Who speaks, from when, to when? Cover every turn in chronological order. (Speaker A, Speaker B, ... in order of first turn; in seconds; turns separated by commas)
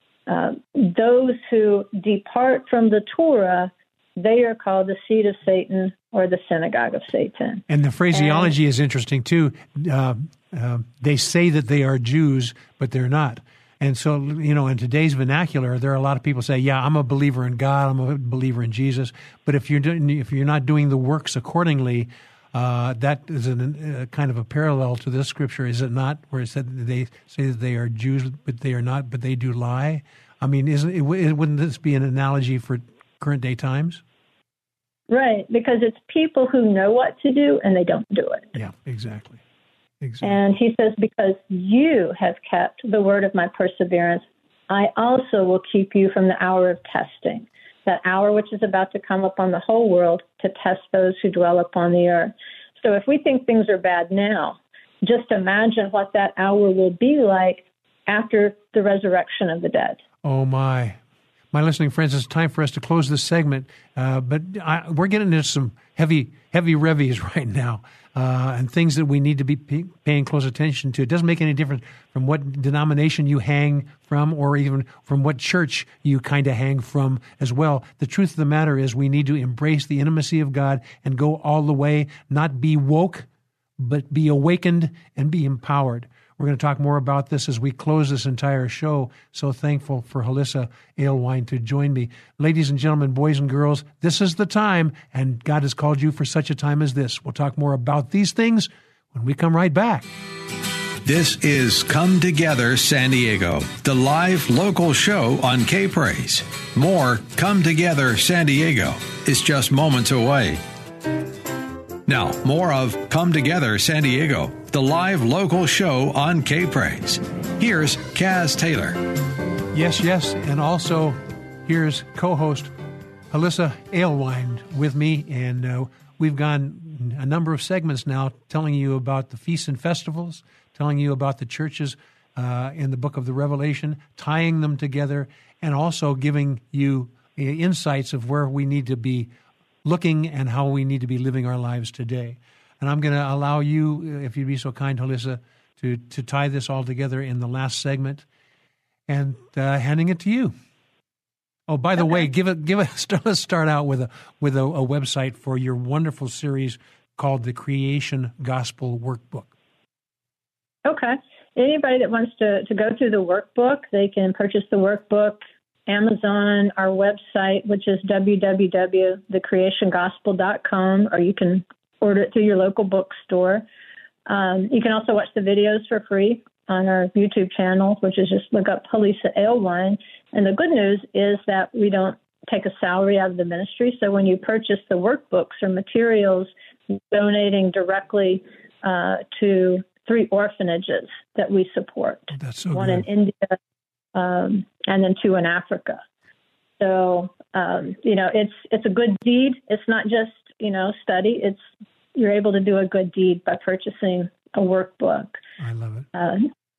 Speaker A: 0.3-8.5, Speaker B: 7.7-34.0, Speaker A: 35.1-38.5, Speaker B: 38.5-39.4, Speaker B: 40.0-40.5, Speaker A: 40.2-60.0, Speaker B: 60.2-61.0, Speaker B: 61.5-83.3, Speaker B: 83.8-100.1, Speaker C: 101.0-110.6, Speaker C: 112.1-119.0, Speaker B: 119.7-122.7, Speaker B: 123.3-139.3, Speaker B: 139.8-148.2, Speaker B: 149.1-150.6, Speaker B: 151.7-159.5, Speaker A: 160.8-173.7, Speaker A: 174.3-193.6, Speaker B: 192.3-193.1, Speaker A: 194.2-196.0, Speaker A: 196.8-201.6, Speaker A: 202.2-205.4, Speaker B: 205.6-206.1, Speaker A: 206.1-206.5